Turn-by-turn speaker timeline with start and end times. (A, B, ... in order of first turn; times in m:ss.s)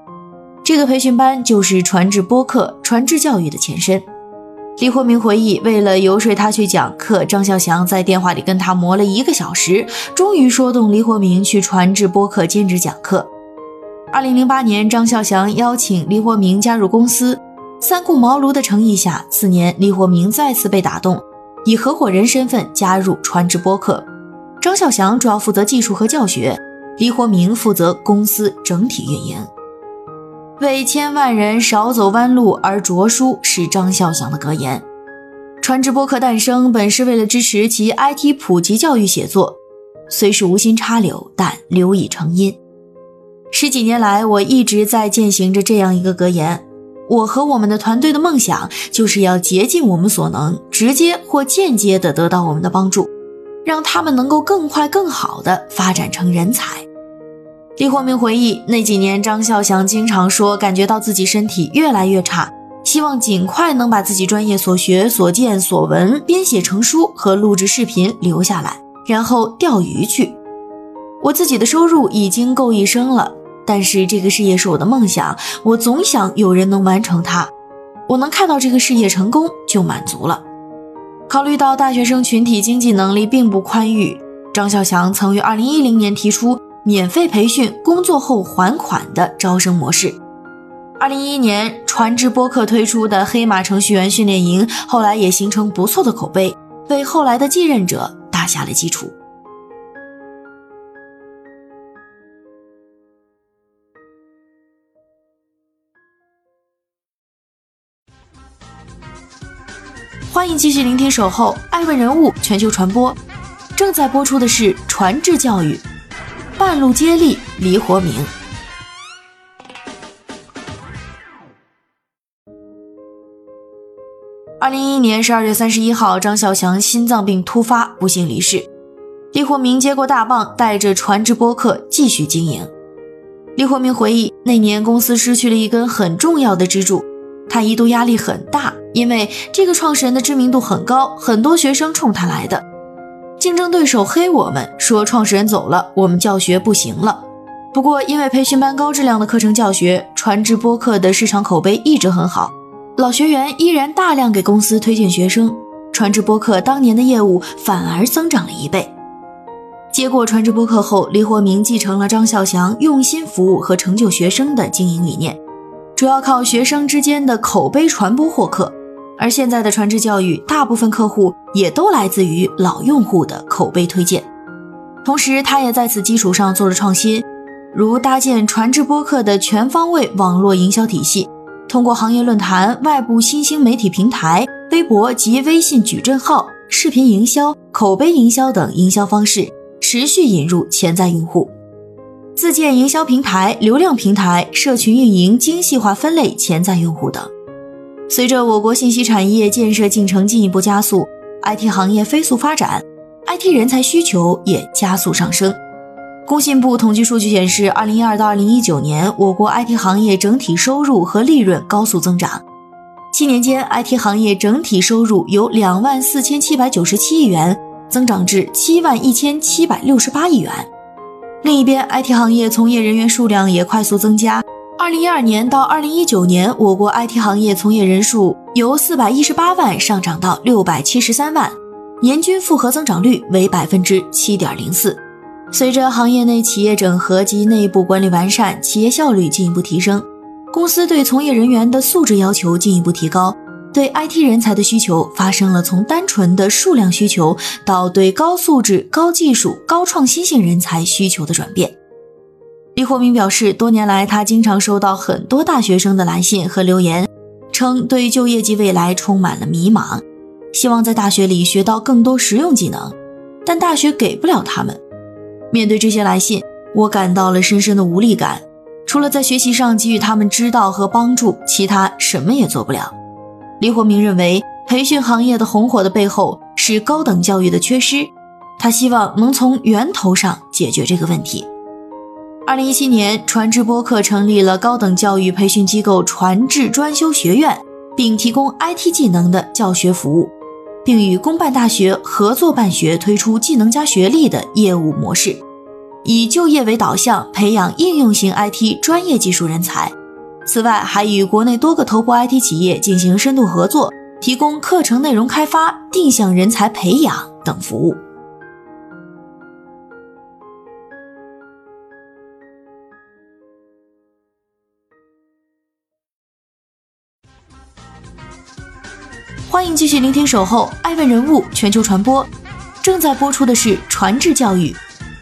0:00.6-0:04.1 A
0:04.8-0:13.3 A
0:14.1-0:24.1 A
0:24.6-0:29.5 A
0:30.6-0:34.8 A
0:35.6-0:42.6 A
0:43.5-0:53.1 A
0:53.6-0:56.9 A
0:57.8-1:10.4 A
1:11.2-1:17.5 A
1:18.1-1:20.4 A
1:21.3-1:30.2 A
1:31.0-1:39.2 A
1:50.3-1:53.2 A
1:53.8-1:55.8 A
1:56.6-1:58.3 A
2:04.6-2:08.7 A
2:09.3-2:12.7 A
2:13.6-2:22.6 A
2:23.4-2:38.9 A
2:39.9-2:45.4 A
2:46.0-2:54.3 A
2:55.0-3:11.5 A
3:12.4-3:17.3 A
3:18.1-3:25.6 A
3:26.3-3:32.4 A
3:33.1-3:40.7 A
3:41.4-4:11.8 A
4:12.8-4:24.8 A
4:25.5-4:33.0 A
4:33.6-4:41.5 A
4:42.5-4:55.4 A
4:56.0-5:08.0 A
5:19.5-5:22.3 A
5:22.8-5:24.8 A